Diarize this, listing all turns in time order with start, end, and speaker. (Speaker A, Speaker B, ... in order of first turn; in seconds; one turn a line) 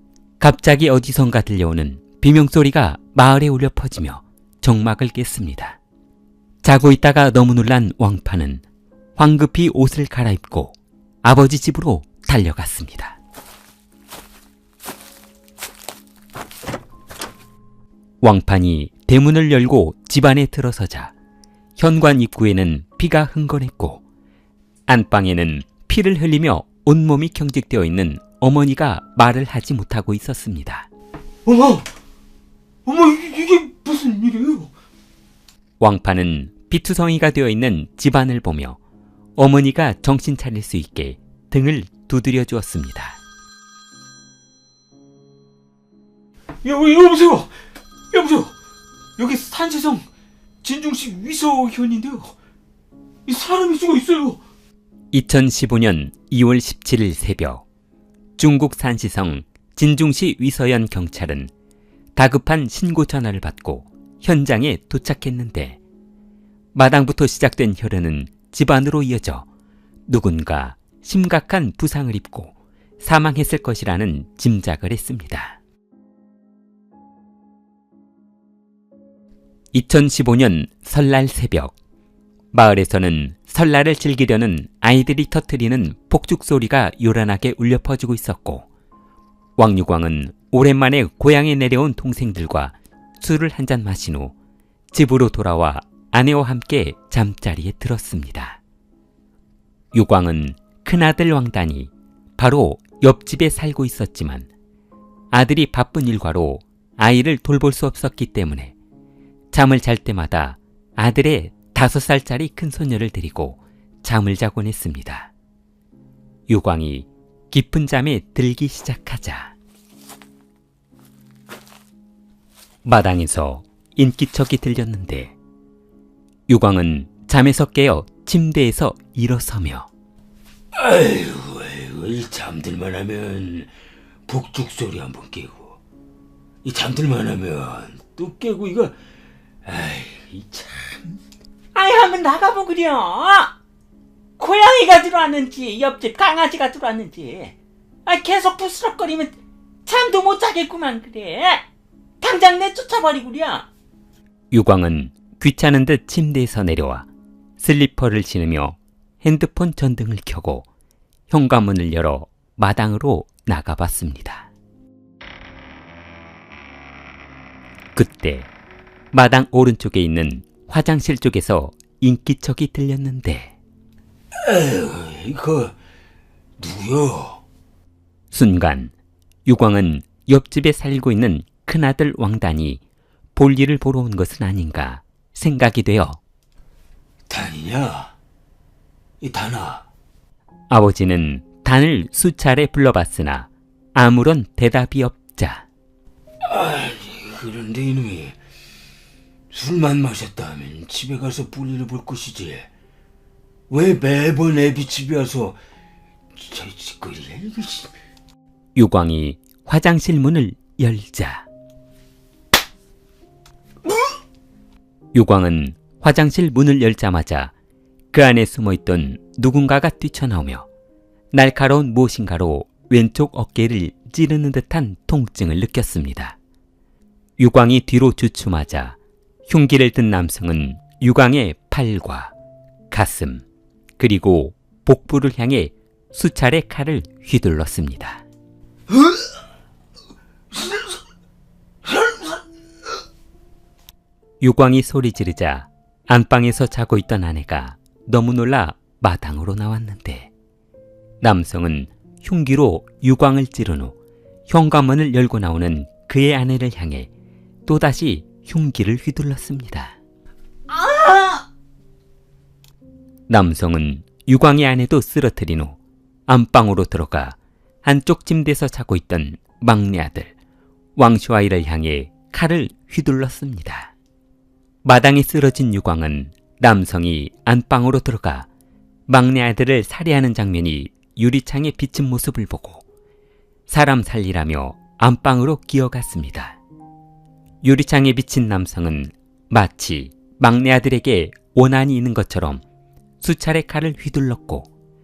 Speaker A: 0.4-5.8
Speaker A: 6.6-8.6
Speaker A: 9.2-13.2
Speaker A: 18.2-21.1
Speaker A: 21.8-24.0
Speaker A: 24.9-30.9
Speaker B: 31.5-31.9
Speaker B: 32.9-34.7
Speaker A: 35.8-38.8
Speaker A: 39.4-43.2
Speaker A: 46.6-47.5
Speaker B: 46.9-47.2
Speaker A: 48.1-48.5
Speaker A: 49.2-50.0
Speaker B: 50.7-51.5
Speaker A: 51.4-52.3
Speaker B: 53.3-54.4
Speaker A: 55.1-57.6
Speaker A: 58.4-61.5
Speaker A: 62.1-65.8
Speaker A: 66.8-69.5
Speaker A: 70.1-75.6
Speaker A: 79.7-81.8
Speaker A: 82.5-88.7
Speaker A: 89.6-94.3
Speaker A: 94.9-98.6
Speaker A: 99.9-104.5
Speaker A: 105.3-108.8
Speaker A: 109.5-115.3
Speaker A: 116.5-119.5
Speaker A: 122.8-125.4
Speaker A: 126.5-129.9
Speaker B: 130.7-133.7
Speaker B: 134.3-135.8
Speaker B: 136.6-139.0
Speaker B: 139.7-141.0
Speaker C: 141.8-143.5
Speaker A: 142.0-143.1
Speaker C: 144.4-147.5
Speaker A: 144.5-145.1
Speaker A: 148.1-149.3
Speaker A: 149.9-151.2
Speaker C: 150.4-151.6
Speaker C: 152.2-153.7
Speaker A: 152.3-153.3
Speaker A: 154.5-160.7
Speaker A: 161.3-164.5
Speaker A: 167.9-168.5
Speaker A: 169.1-173.6
Speaker B: 174.4-175.8
Speaker B: 176.6-177.4
Speaker A: 178.3-178.9
Speaker A: 179.4-182.8
Speaker A: 183.3-186.2
Speaker B: 187.3-188.1
Speaker B: 189.2-189.9
Speaker A: 190.7-195.7
Speaker B: 196.4-198.4
Speaker B: 199.5-202.7
Speaker B: 203.7-205.6
Speaker B: 206.3-207.9
Speaker A: 208.8-211.5
Speaker A: 215.1-217.5
Speaker A: 218.1-220.7
Speaker A: 221.3-226.4
Speaker A: 227.4-232.3
Speaker A: 232.9-233.4
Speaker A: 234.0-238.2
Speaker A: 244.4-250.3
Speaker A: 251.2-254.0
Speaker A: 254.5-257.1
Speaker A: 257.7-260.0
Speaker C: 260.7-261.4
Speaker A: 263.3-270.3
Speaker A: 271.0-273.9
Speaker A: 274.8-278.5
Speaker A: 279.1-282.9
Speaker A: 283.7-286.6
Speaker A: 287.6-292.6
Speaker A: 293.2-294.7